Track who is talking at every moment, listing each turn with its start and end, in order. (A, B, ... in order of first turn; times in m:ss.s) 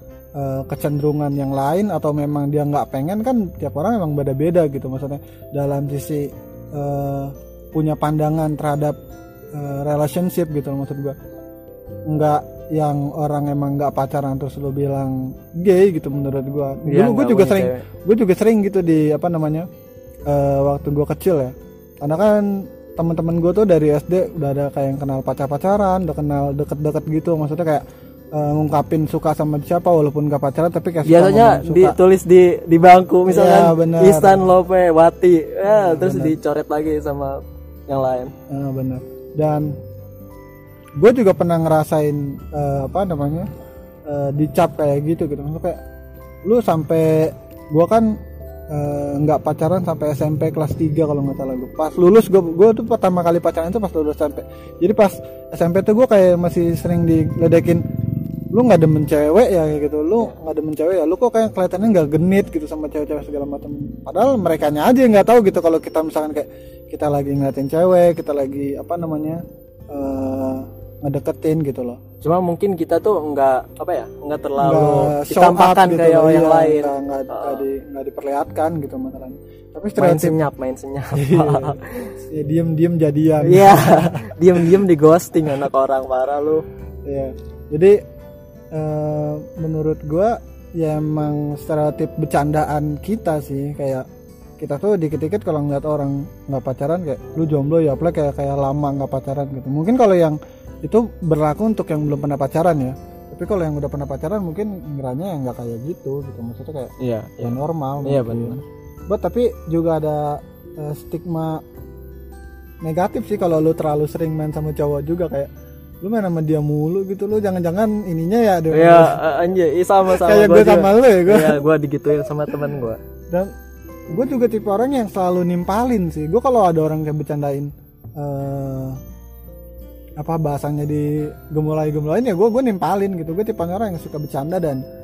0:00.4-0:09.0 A
0:09.5-0:11.2 A
0:12.1-0:19.7 A
0:16.8-0:17.8 B
0:20.2-0:32.0 A
0:31.0-0:38.3 B
0:33.3-0:34.5 A
0:35.6-0:36.4 A
0:38.5-0:39.7 A
0:41.0-0:43.5 A
0:44.0-0:45.8 A
0:46.4-0:57.8 A
0:58.5-1:12.0 A
1:12.2-1:17.6 B
1:14.6-1:20.4 A
1:20.0-1:22.1 B
1:21.1-1:24.8 A
1:23.4-1:26.6 B
1:27.0-1:28.0 A
1:28.7-1:34.0 A
1:34.6-1:51.6 A
1:47.0-1:48.6 B
1:52.8-1:55.5 A
1:56.0-1:59.2 A
1:58.7-2:03.0 B
2:00.1-2:01.6 A
2:04.1-2:09.0 A
2:10.2-2:14.8 A